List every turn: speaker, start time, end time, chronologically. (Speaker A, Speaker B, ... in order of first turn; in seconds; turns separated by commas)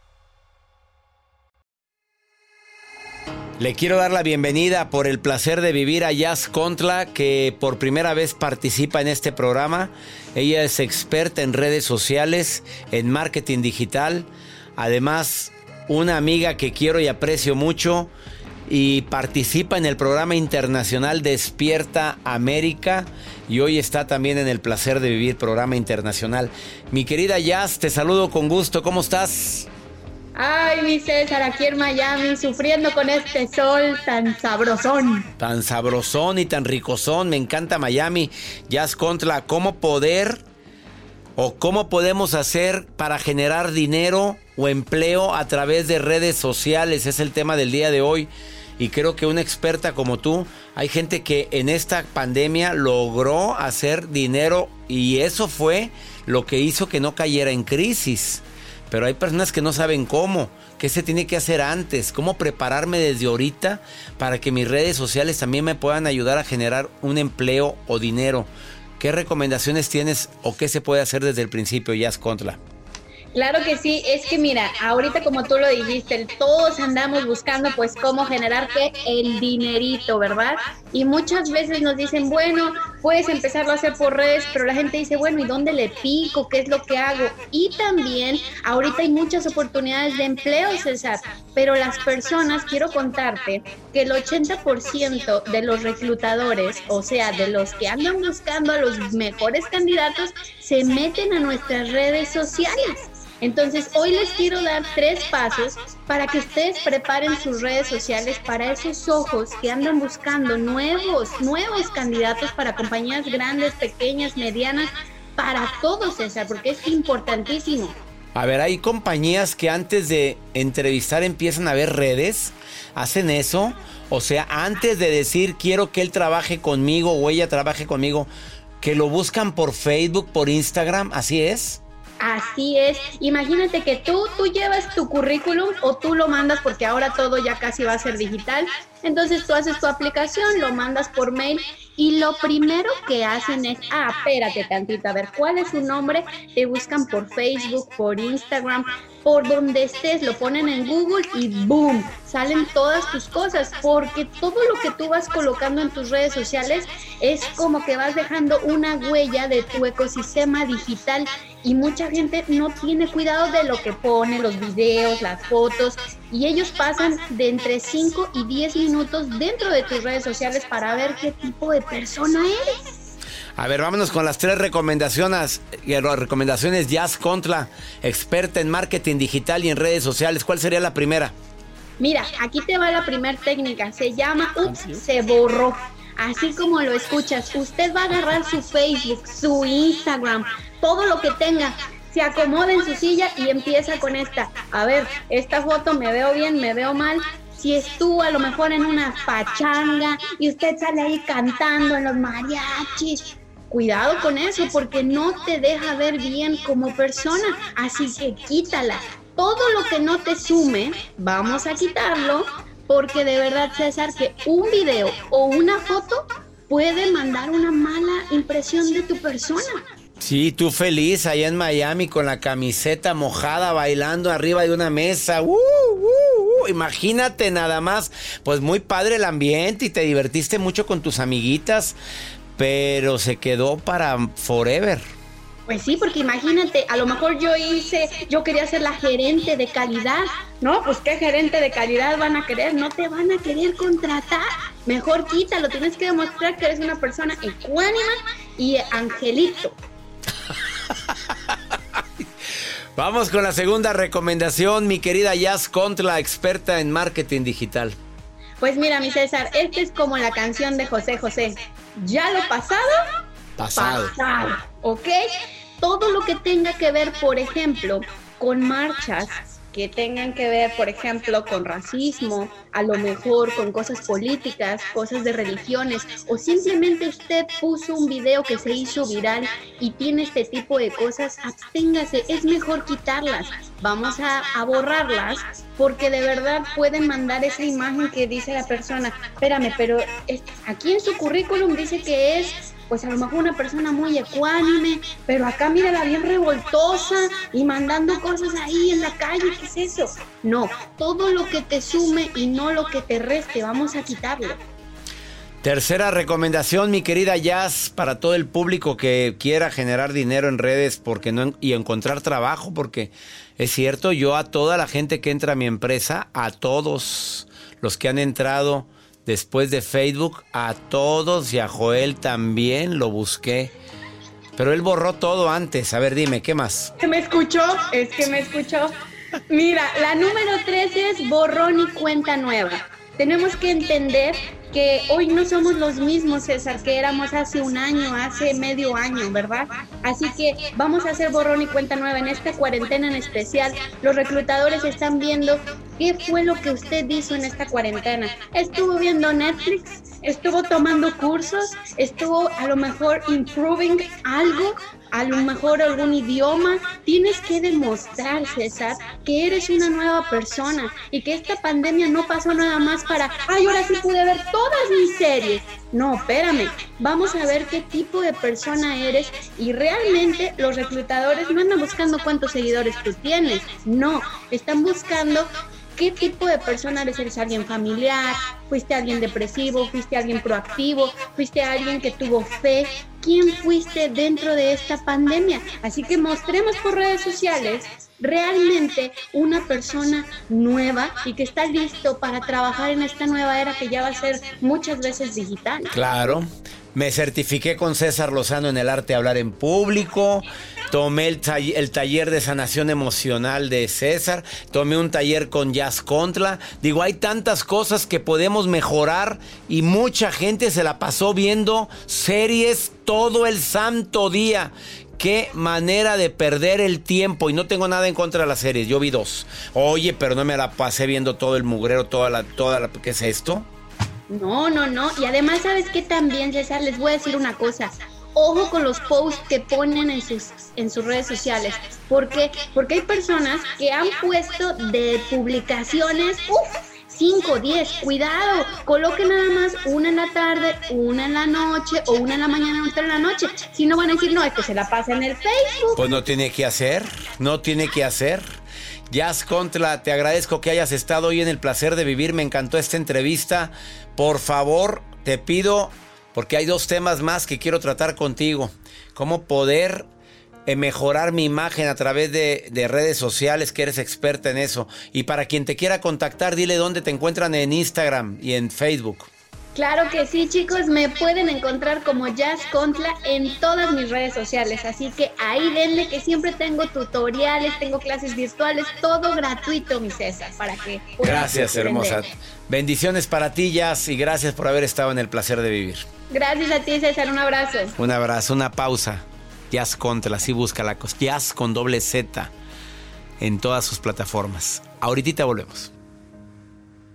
Speaker A: 3.6-18.1, Speaker A: 18.7-29.7, Speaker B: 30.4-35.3, Speaker A: 35.4-40.4, Speaker A: 41.4-72.6, Speaker B: 73.3-118.0, Speaker A: 118.3-128.3, Speaker A: 128.8-131.8, Speaker B: 132.2-172.9, Speaker A: 173.6-181.3, Speaker B: 182.0-219.8, Speaker A: 220.2-231.9, Speaker A: 232.6-235.0, Speaker B: 235.7-249.8, Speaker A: 250.9-252.2, Speaker A: 252.9-257.9, Speaker B: 258.6-263.0, Speaker A: 263.6-264.1, Speaker B: 263.8-265.2, Speaker B: 265.8-304.6, Speaker A: 305.6-323.7, Speaker A: 324.6-326.9, Speaker B: 327.0-328.9, Speaker B: 329.5-395.9, Speaker A: 395.9-423.7, Speaker B: 424.3-446.1, Speaker A: 445.9-448.4, Speaker A: 449.1-460.1, Speaker A: 460.7-469.3, Speaker B: 469.7-482.2, Speaker A: 481.2-486.1, Speaker B: 486.3-487.9, Speaker A: 488.0-492.5, Speaker A: 493.4-495.9